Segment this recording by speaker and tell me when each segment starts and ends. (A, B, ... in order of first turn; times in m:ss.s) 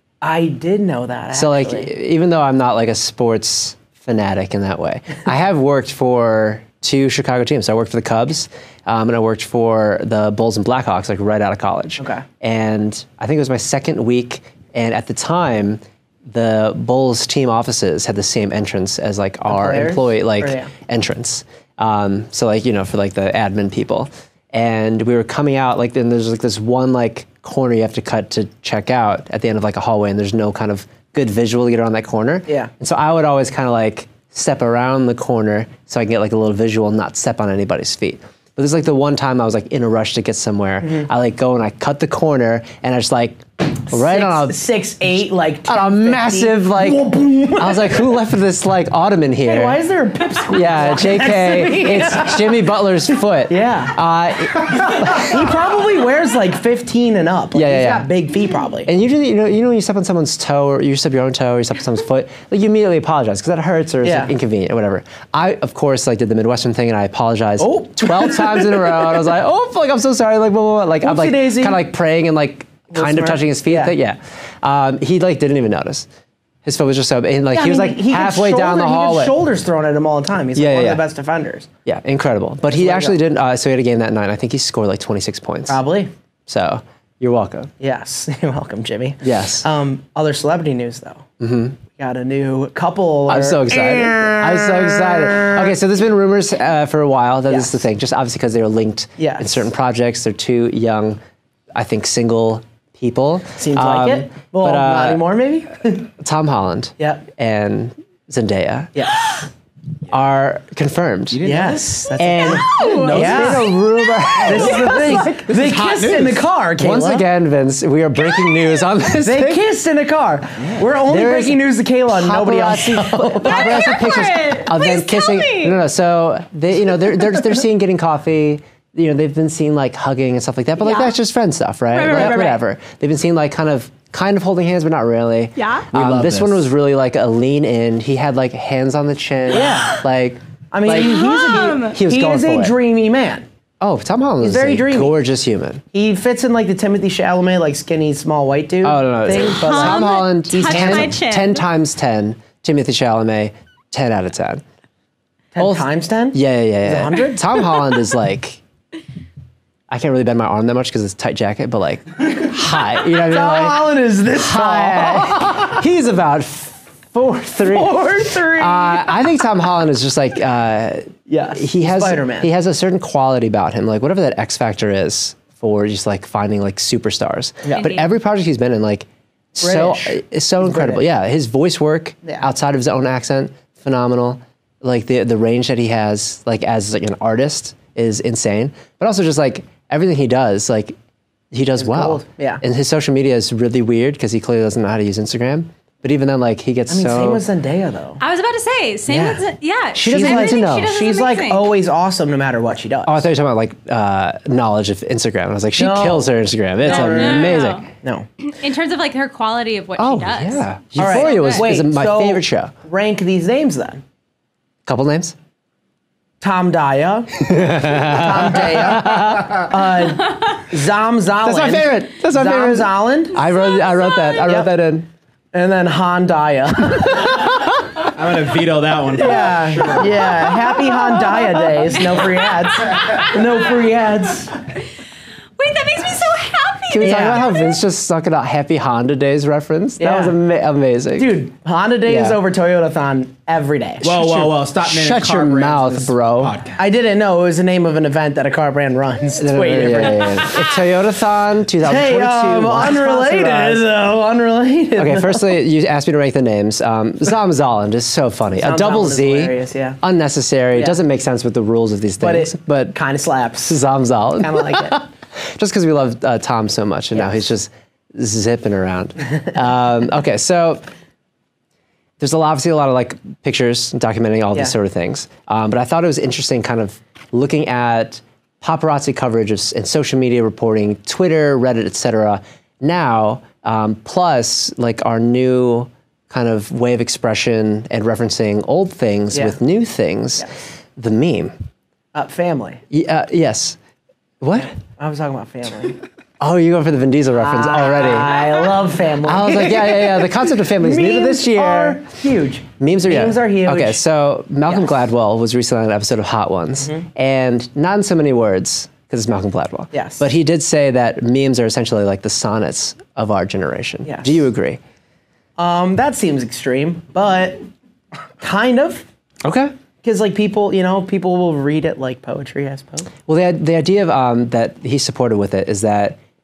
0:00.2-0:01.9 A
0:01.3-0:44.6 B
0:12.0-0:12.2 A
0:19.5-0:20.7 A
0:40.8-0:41.1 A
0:43.9-0:48.1 A
0:45.6-0:49.8 B
0:49.4-0:52.6 A
0:50.5-0:55.6 B
0:53.4-0:54.0 A
0:54.6-0:58.9 A
0:57.5-0:58.1 B
0:58.8-1:16.1 B
1:04.0-1:04.3 A
1:07.6-1:09.2 A
1:11.0-1:11.8 A
1:12.9-1:13.9 A
1:16.6-1:19.3 B
1:17.5-1:21.7 A
1:20.5-1:21.0 B
1:21.8-1:25.8 B
1:22.6-1:23.2 A
1:25.7-1:26.1 A
1:26.5-1:27.7 B
1:27.8-1:31.2 A
1:29.2-1:29.6 B
1:31.4-1:31.8 B
1:31.9-1:35.6 A
1:33.3-1:41.2 B
1:37.5-1:37.8 A
1:39.2-1:39.6 A
1:41.7-1:45.2 B
1:43.6-1:46.1 A
1:46.2-1:48.9 B
1:47.0-1:47.2 A
1:48.9-1:49.4 A
1:50.1-1:51.4 B
1:51.3-1:52.2 C
1:51.4-1:53.7 A
1:52.2-1:55.4 B
1:52.4-1:54.8 D
1:54.4-1:57.2 A
1:55.1-1:56.4 C
1:56.8-1:59.6 B
1:59.2-2:04.0 A
2:01.0-2:22.8 B
2:03.4-2:05.8 D
2:10.8-2:11.1 D
2:11.9-2:12.6 D
2:12.1-2:12.4 A
2:15.6-2:15.9 D
2:15.9-2:16.6 C
2:19.5-2:20.0 A
2:19.6-2:20.0 D
2:20.7-2:23.4 A
2:20.9-2:22.0 D
2:23.8-2:25.8 B
2:24.4-2:25.2 A
2:25.9-2:31.2 A
2:28.8-2:34.6 B
2:29.3-2:31.6 D
2:35.5-2:37.6 A
2:35.6-2:38.6 B
2:39.9-3:11.0 B
2:43.1-2:45.8 A
2:47.6-2:49.2 A
2:51.3-2:52.5 A
2:57.7-2:58.1 D
2:59.6-3:01.0 A
3:11.5-3:17.4 B
3:11.8-3:12.6 A
3:16.9-3:18.2 A
3:18.2-3:21.7 D
3:19.1-3:19.5 A
3:19.9-3:21.0 B
3:20.0-3:23.2 A
3:23.0-3:27.8 B
3:25.8-3:28.3 A
3:26.8-3:27.9 D
3:28.4-3:31.7 D
3:30.0-3:32.7 B
3:31.0-3:34.0 A
3:34.8-3:35.3 B
3:36.4-3:43.4 A
3:37.4-3:39.7 B
3:41.4-3:45.1 B
3:43.5-3:44.4 D
3:44.4-3:44.7 A
3:45.5-3:47.6 A
3:48.1-3:50.2 C
3:49.1-3:54.6 A
3:50.6-3:53.6 D
3:55.6-3:57.7 D
3:56.9-4:01.4 B
3:57.0-3:57.4 A
4:00.0-4:00.4 A
4:01.2-4:04.4 A
4:02.0-4:02.4 B
4:04.0-4:06.8 C
4:04.3-4:06.6 B
4:06.8-4:10.5 A
4:09.4-4:13.8 B
4:11.8-4:15.6 A
4:15.0-4:23.0 B
4:18.6-4:20.0 A
4:20.7-4:21.0 A
4:22.2-4:23.8 A
4:23.6-4:30.8 B
4:24.4-4:25.0 A
4:32.2-4:51.5 B
4:49.3-4:49.6 A
4:52.1-4:52.8 A
4:52.9-4:53.8 B
4:54.4-4:54.7 B
4:55.0-4:56.0 A
4:56.4-4:58.5 B
4:57.4-5:04.0 A
4:59.2-5:02.0 B
5:02.8-5:14.8 B
5:06.8-5:07.0 A
5:09.9-5:10.2 A
5:14.0-5:14.4 A
5:15.6-5:17.6 A
5:18.4-5:19.0 A
5:19.4-5:19.7 B
5:20.0-5:23.1 A
5:23.3-5:26.2 B